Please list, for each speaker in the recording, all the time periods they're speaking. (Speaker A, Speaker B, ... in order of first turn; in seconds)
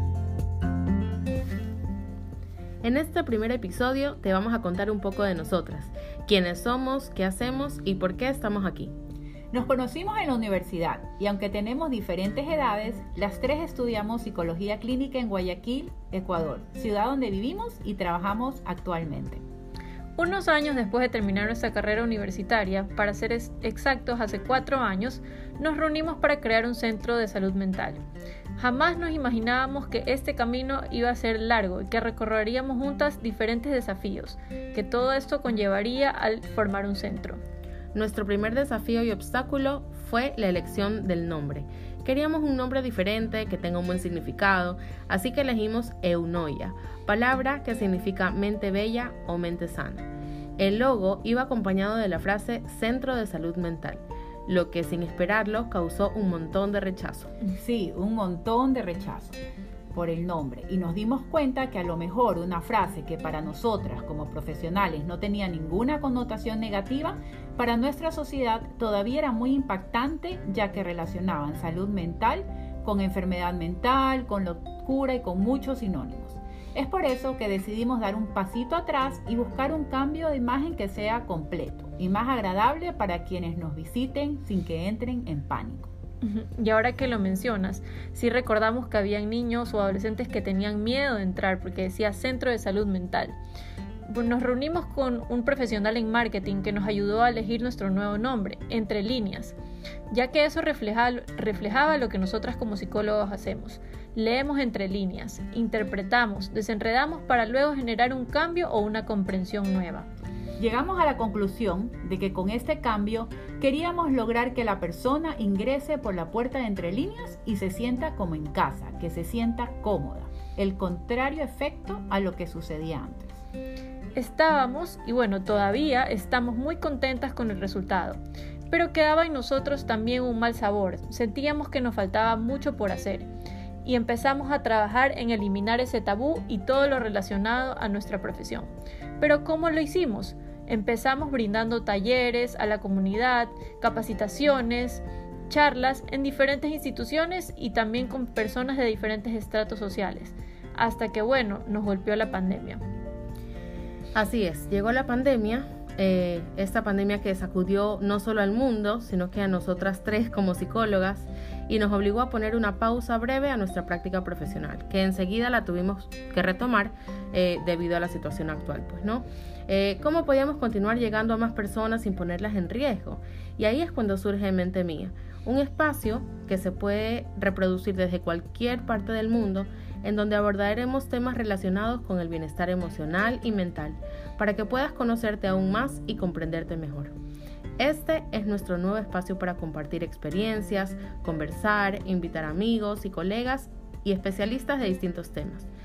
Speaker A: 2.8-8.9, 37.9-50.1, 50.6-57.3, 154.1-187.1, 187.8-195.7
Speaker B: 9.5-19.4, 57.5-59.4, 59.9-85.9, 110.6-123.4
Speaker C: 20.2-28.0, 28.6-37.4, 86.2-93.3, 94.1-99.5, 100.1-110.0, 124.1-128.2, 128.7-133.3, 133.8-152.8